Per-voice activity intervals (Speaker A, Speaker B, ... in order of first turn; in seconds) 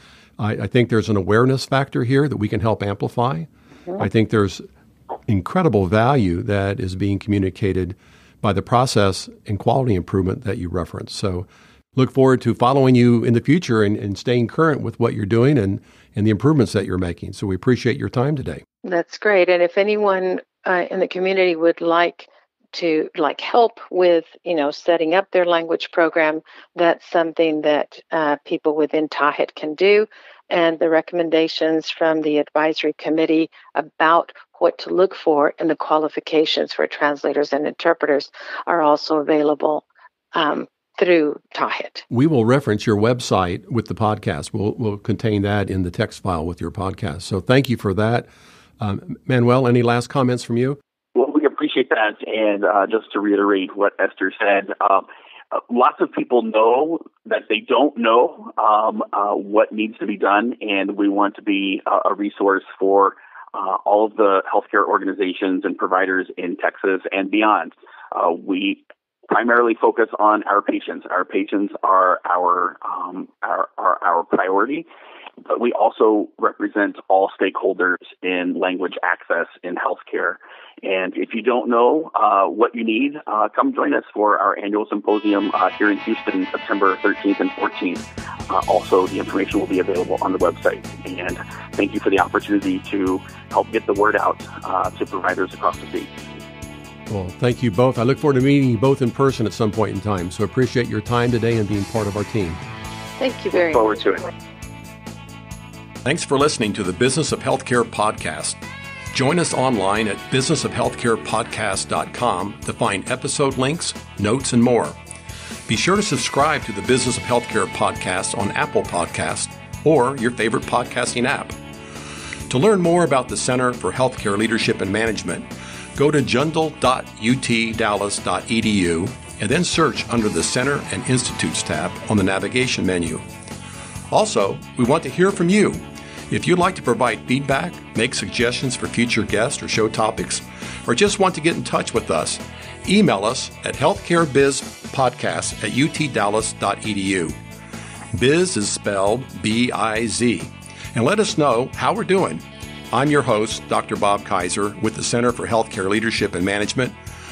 Speaker A: 0.4-4.7, 5.3-18.6, 42.1-48.3, 48.8-50.8, 97.1-102.6, 106.0-108.6, 109.1-115.0, 115.7-121.5, 122.5-133.2, 134.1-147.3, 148.1-156.9
Speaker B: 18.8-42.0, 103.2-104.0
Speaker C: 51.1-74.8, 75.5-96.1, 103.7-104.2